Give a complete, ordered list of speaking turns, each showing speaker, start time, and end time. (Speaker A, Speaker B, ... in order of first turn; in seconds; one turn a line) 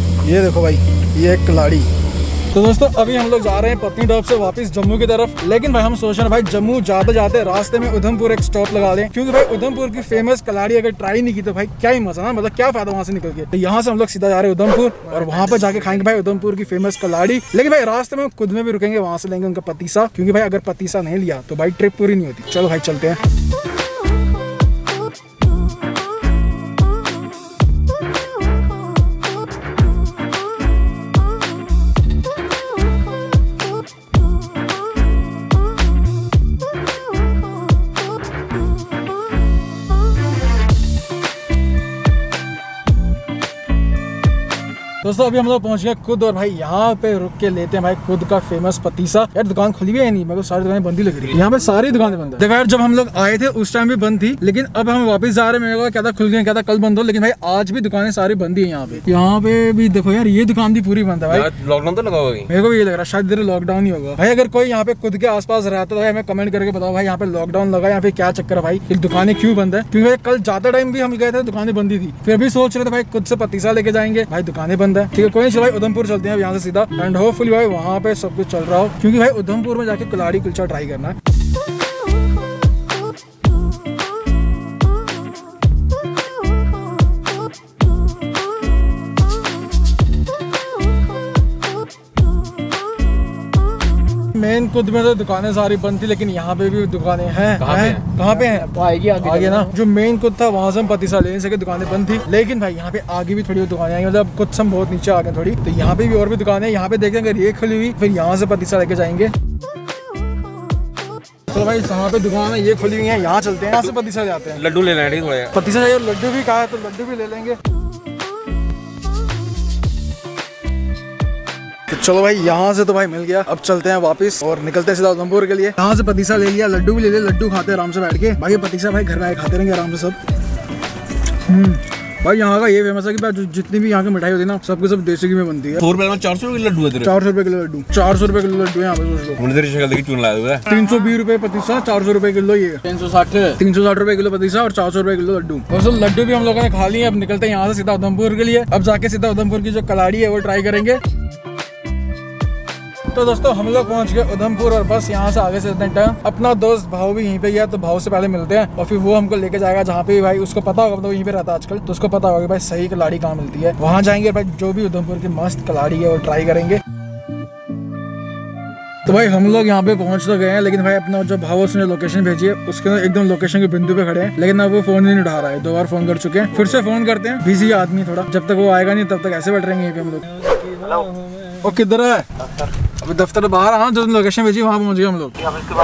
Speaker A: 0.2-1.9
Speaker A: 2.5-23.2
Speaker A: 45.0-61.5
Speaker B: 61.3-62.5
Speaker A: 62.5-81.2
Speaker A: 94.3-109.3
Speaker B: 97.6-98.1
Speaker C: 98.2-99.7
Speaker A: 111.5-114.6
Speaker B: 114.5-115.5
Speaker A: 115.5-117.6
Speaker A: 121.9-130.2
Speaker A: 131.5-135.8
Speaker B: 135.8-137.1
Speaker A: 137.0-139.4
Speaker B: 139.4-140.7
Speaker A: 140.7-142.9
Speaker C: 142.9-143.6
Speaker A: 143.6-151.0
Speaker A: 153.1-166.8
Speaker A: 169.1-180.4
Speaker C: 180.5-181.5
Speaker A: 181.6-185.5